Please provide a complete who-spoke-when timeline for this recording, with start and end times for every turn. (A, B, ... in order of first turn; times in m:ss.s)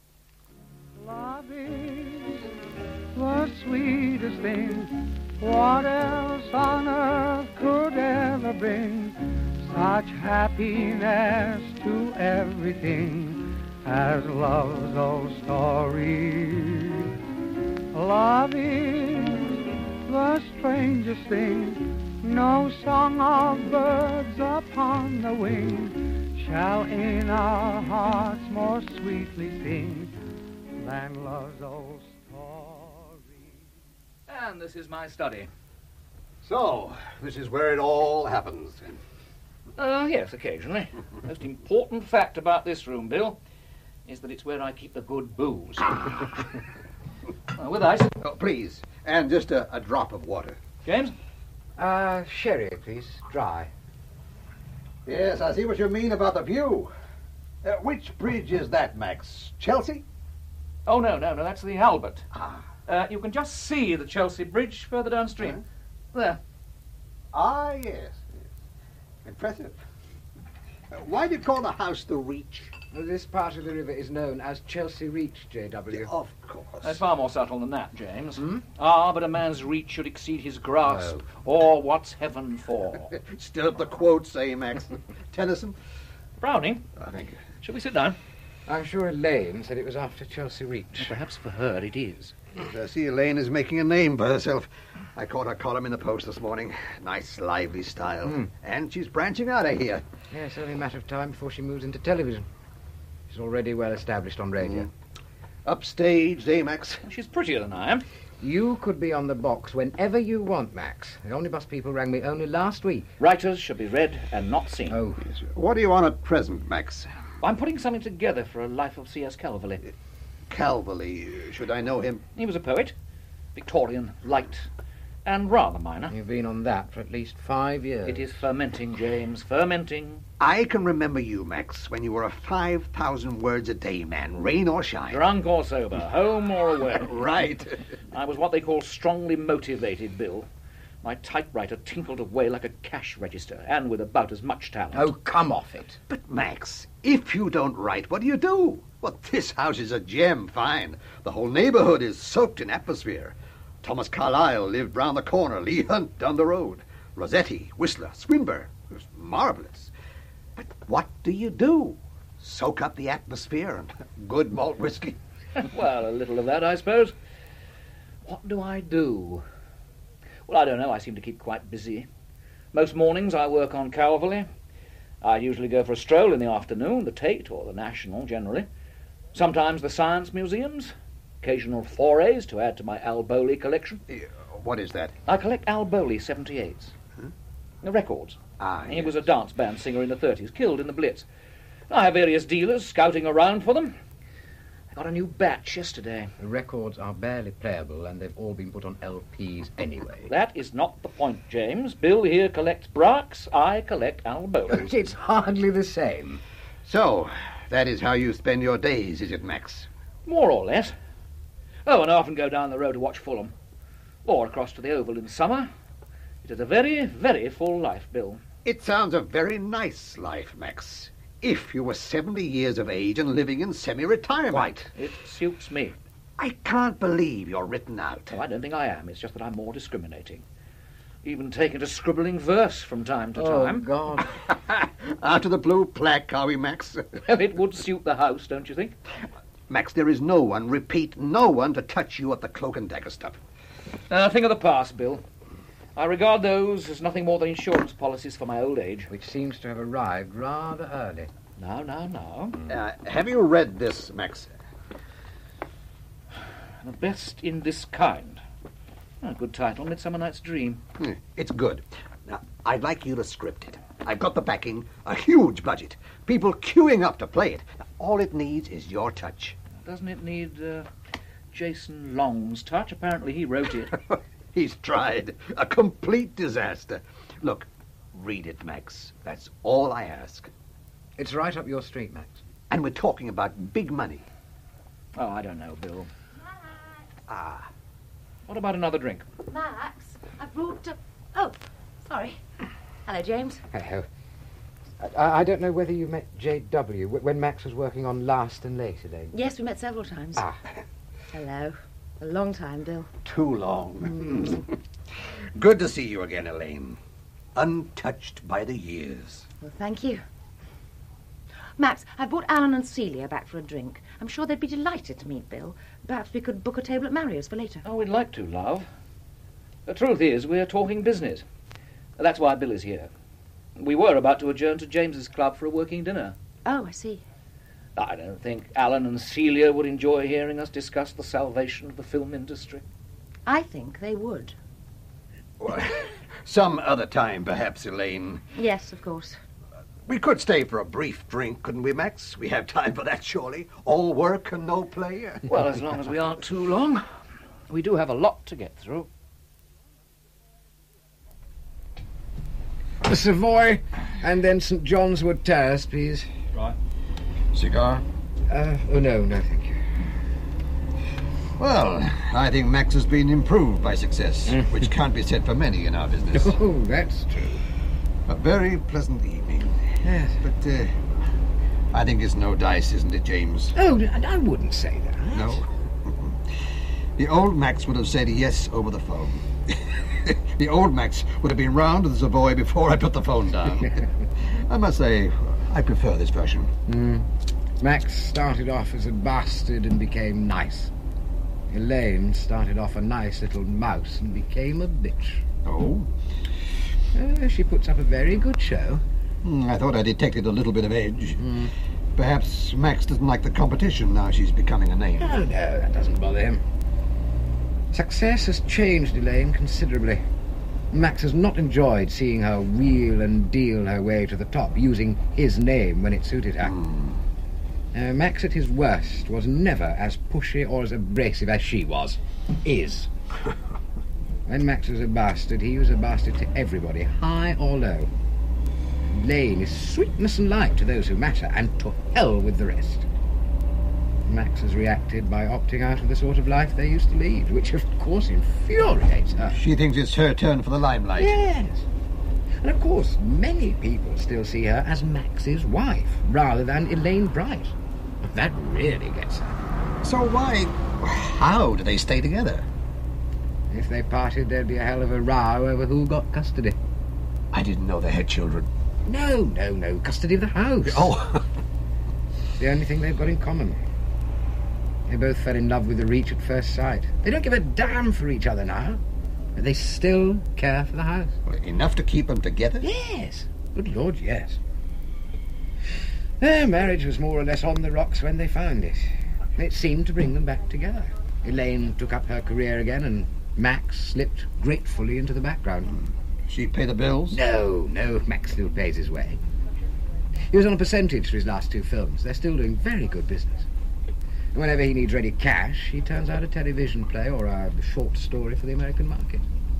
0:01.0-0:02.5 A
0:03.2-0:17.1 A
0:17.9-0:30.1 A
0:30.8-0:33.6 A
0:34.3-0:35.5 B
0:36.4-0:39.0 C
0:39.8-0:43.4 B
0:44.1-0:46.4 B
0:47.6-0:48.1 B
0:48.2-0:50.6 C
0:50.8-0:51.1 B
0:51.8-0:53.7 D
0:55.1-0:56.9 C
0:57.6-1:00.0 C
1:00.9-1:02.3 B
1:02.3-1:02.6 C
1:02.9-1:05.6 B
1:06.1-1:06.4 B
1:07.3-1:08.3 C
1:09.2-1:09.8 C
1:10.9-1:12.7 C
1:12.9-1:16.1 D
1:15.9-1:17.0 C
1:16.8-1:23.1 B
1:18.4-1:18.6 D
1:20.8-1:21.2 D
1:23.2-1:25.8 C
1:26.4-1:26.8 B
1:27.0-1:27.4 C
1:27.6-1:28.2 B
1:28.7-1:31.2 D
1:31.0-1:32.4 B
1:32.6-1:40.0 C
1:38.2-1:38.5 D
1:40.3-1:42.5 D
1:43.3-1:44.9 D
1:45.6-1:47.0 C
1:47.0-1:48.0 B
1:48.4-1:53.1 D
1:53.2-1:55.0 B
1:54.9-1:55.2 D
1:55.3-1:57.1 C
1:57.4-1:59.8 B
2:00.5-2:02.2 C
2:02.4-2:02.9 B
2:03.6-2:04.7 B
2:05.2-2:06.2 B
2:06.1-2:08.4 D
2:08.1-2:10.2 B
2:10.4-2:15.2 C
2:15.1-2:17.3 B
2:16.9-2:17.8 C
2:18.1-2:20.5 B
2:21.0-2:25.1 B
2:24.9-2:26.0 D
2:26.1-2:39.9 C
2:40.6-2:45.2 C
2:45.6-2:47.2 B
2:48.2-2:49.4 B
2:50.5-2:52.1 B
2:52.7-2:54.5 B
2:55.2-2:58.7 B
2:59.3-3:04.0 B
3:04.1-3:05.2 C
3:05.3-3:06.9 B
3:07.8-3:11.2 B
3:08.6-3:09.3 C
3:11.9-3:14.0 B
3:14.9-3:16.3 B
3:16.4-3:20.3 D
3:20.3-3:24.9 B
3:24.7-3:26.4 D
3:26.8-3:29.9 C
3:30.3-3:31.0 B
3:31.9-3:33.5 B
3:34.2-3:35.7 B
3:36.4-3:38.4 B
3:38.6-3:44.9 C
3:44.5-3:46.0 B
3:46.4-3:48.4 C
3:48.3-3:50.4 B
3:51.2-3:53.9 B
3:53.4-3:54.3 D
3:54.6-3:57.2 C
3:57.3-3:59.0 B
3:59.7-4:03.4 C
4:04.1-4:05.2 B
4:06.0-4:09.1 B
4:09.1-4:11.3 D
4:11.6-4:12.6 B
4:12.7-4:14.5 C
4:16.8-4:18.4 B
4:19.2-4:20.8 B
4:21.0-4:29.6 C
4:29.8-4:30.9 B
4:31.5-4:34.0 B
4:34.1-4:40.5 C
4:41.2-4:42.4 D
4:42.7-4:44.3 C
4:45.2-4:46.1 B
4:47.3-4:47.7 C
4:48.5-4:49.2 B
4:49.5-4:52.4 E
4:53.1-4:53.6 E
4:53.7-4:54.1 D
4:55.0-4:59.3 D
4:59.3-5:00.4 E
5:00.4-5:00.6 D
5:01.3-5:03.1 E
5:03.2-5:04.7 C
5:05.6-5:07.0 C
5:07.6-5:09.5 C
5:09.6-5:10.2 E
5:11.8-5:17.8 E
5:17.8-5:18.9 B
5:19.9-5:21.4 B
5:22.2-5:23.1 B
5:23.8-5:26.4 B
5:26.6-5:27.2 E
5:28.0-5:32.8 B
5:33.5-5:34.6 E
5:35.6-5:38.4 C
5:38.6-5:39.4 E
5:40.1-5:45.4 C
5:45.5-5:47.0 B
5:47.7-5:49.1 B
5:53.0-5:56.3 D
5:57.5-5:58.0 C
5:58.5-5:59.8 D
6:01.6-6:06.6 C
6:04.5-6:04.9 D
6:06.3-6:07.6 D
6:08.3-6:11.0 C
6:10.0-6:10.4 D
6:11.9-6:13.8 C
6:13.8-6:15.6 D
6:15.3-6:16.4 C
6:17.2-6:19.7 C
6:20.2-6:26.7 C
6:26.9-6:30.9 D
6:31.7-6:35.5 D
6:35.6-6:36.1 C
6:37.1-6:39.0 D
6:39.4-6:41.5 C
6:41.4-6:41.7 D
6:42.2-6:45.4 C
6:45.2-6:46.6 D
6:47.9-6:50.2 D
6:50.9-6:56.8 D
6:56.7-6:57.2 C
6:57.9-7:03.1 D
7:04.5-7:08.1 D
7:09.1-7:13.1 D
7:14.2-7:19.6 D
7:19.5-7:21.4 C
7:21.2-7:21.9 D
7:22.6-7:29.8 D
7:30.0-7:32.7 C
7:33.7-7:36.8 D
7:37.5-7:38.7 C
7:39.0-7:41.2 D
7:40.9-7:41.4 C
7:42.6-7:43.8 D
7:45.1-7:49.0 D
7:49.6-7:51.4 D
7:51.5-7:52.9 C
7:52.8-7:54.6 D
7:56.4-8:06.0 D
8:06.5-8:07.4 C
8:07.3-8:09.4 D
8:10.5-8:13.7 D
8:14.5-8:19.4 D